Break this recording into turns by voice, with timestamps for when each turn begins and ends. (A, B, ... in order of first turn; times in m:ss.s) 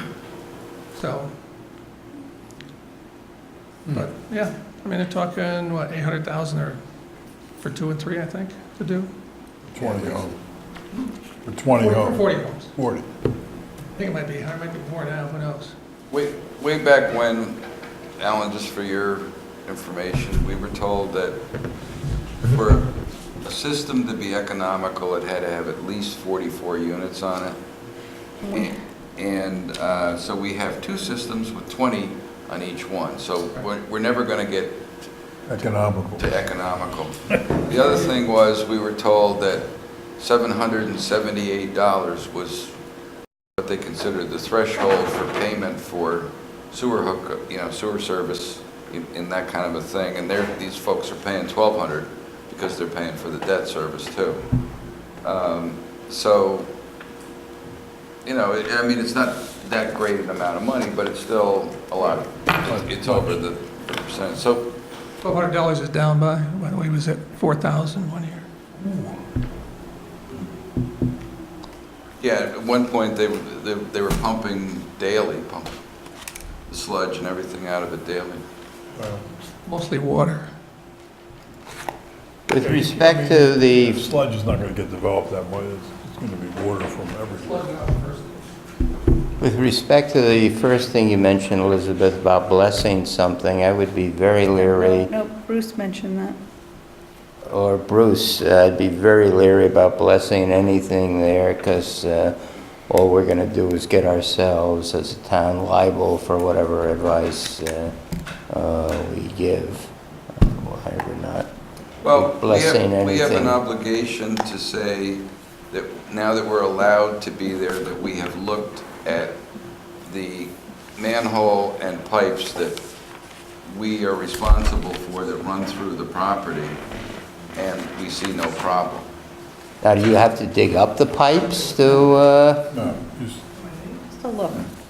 0:01.0-0:01.3 A
0:03.9-0:06.8 A
0:07.6-0:09.1 A
0:09.7-0:10.3 B
0:09.8-0:10.1 C
0:11.4-0:13.1 B
0:11.8-0:12.7 A
0:13.9-0:15.7 A
0:16.1-0:17.6 C
0:18.2-0:21.4 C
0:22.5-0:22.9 C
0:23.4-0:27.6 C
0:28.4-0:28.7 D
0:28.5-0:34.8 C
0:35.5-0:36.3 B
0:36.2-0:42.8 C
0:43.6-0:54.4 C
0:55.2-0:56.7 C
0:58.2-1:04.7 C
1:02.6-1:03.4 B
1:05.2-1:08.5 A
1:08.8-1:09.2 B
1:12.2-1:15.8 C
1:16.7-1:18.4 C
1:18.9-1:19.2 B
1:19.7-1:20.5 A
1:22.5-1:24.0 E
1:22.6-1:27.6 B
1:27.4-1:28.5 A
1:29.4-1:35.1 E
1:34.6-1:36.4 D
1:37.5-1:42.4 E
1:42.9-1:47.9 E
1:48.5-1:51.5 E
1:52.0-1:59.4 C
1:52.1-1:53.6 E
2:00.0-2:02.8 C
2:03.6-2:06.8 C
2:07.5-2:09.1 C
2:09.8-2:12.7 E
2:12.7-2:13.4 B
2:13.6-2:14.7 D